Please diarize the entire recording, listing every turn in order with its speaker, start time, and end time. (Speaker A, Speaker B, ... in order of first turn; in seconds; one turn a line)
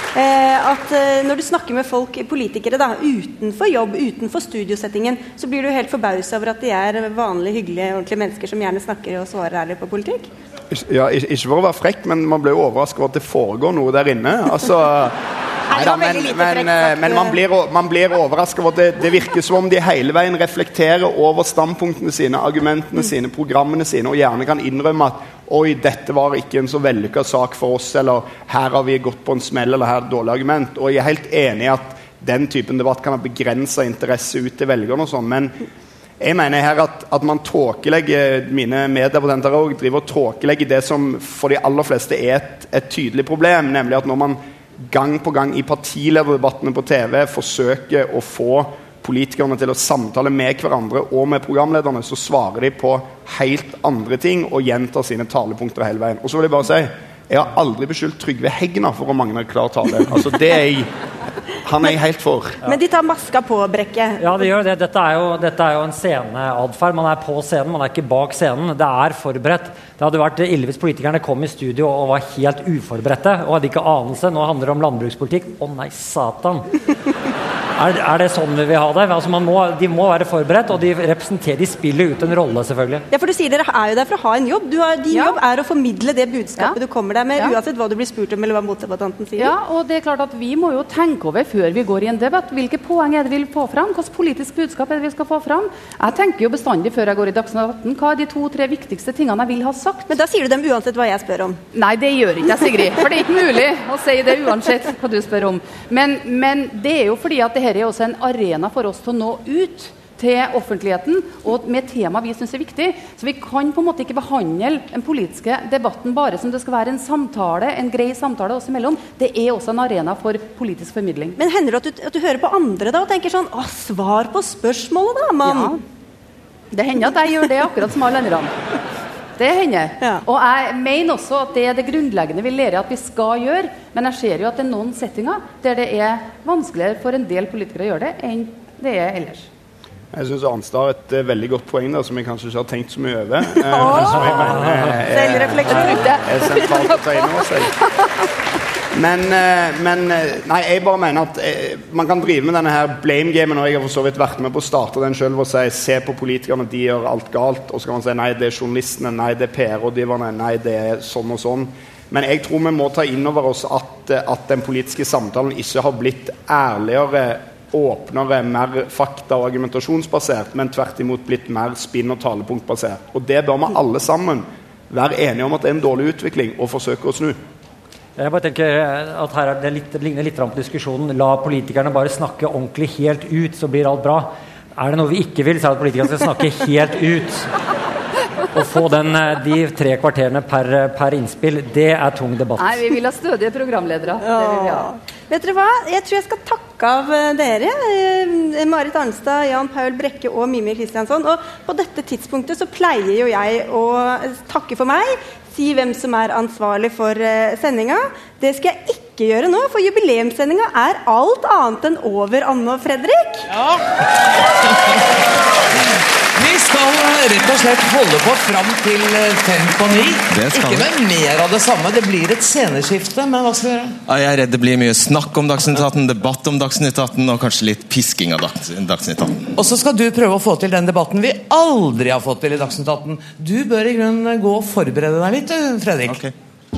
Speaker A: 0.1-10.3
Speaker B: 10.7-15.2
Speaker A: 15.7-17.4
Speaker B: 15.7-35.6
Speaker B: 36.2-60.9
Speaker B: 61.6-62.6
Speaker A: 62.6-64.5
Speaker C: 64.2-76.7
Speaker C: 77.8-83.0
Speaker A: 83.1-89.5
Speaker D: 85.1-85.4
Speaker D: 89.4-100.1
Speaker A: 100.1-101.6
Speaker D: 101.7-121.4
Speaker A: 121.4-125.8
Speaker D: 125.4-125.8
Speaker D: 126.7-128.5
Speaker D: 129.4-139.5
Speaker B: 140.1-147.7
Speaker A: 143.6-147.5
Speaker D: 145.8-146.2
Speaker B: 148.9-177.4
Speaker C: 178.2-187.5
Speaker C: 188.5-192.8
Speaker D: 192.6-194.9
Speaker A: 194.2-213.5
Speaker E: 213.5-213.8
Speaker E: 216.4-224.0
Speaker F: 220.3-220.9
Speaker F: 224.1-229.5
Speaker E: 229.6-236.2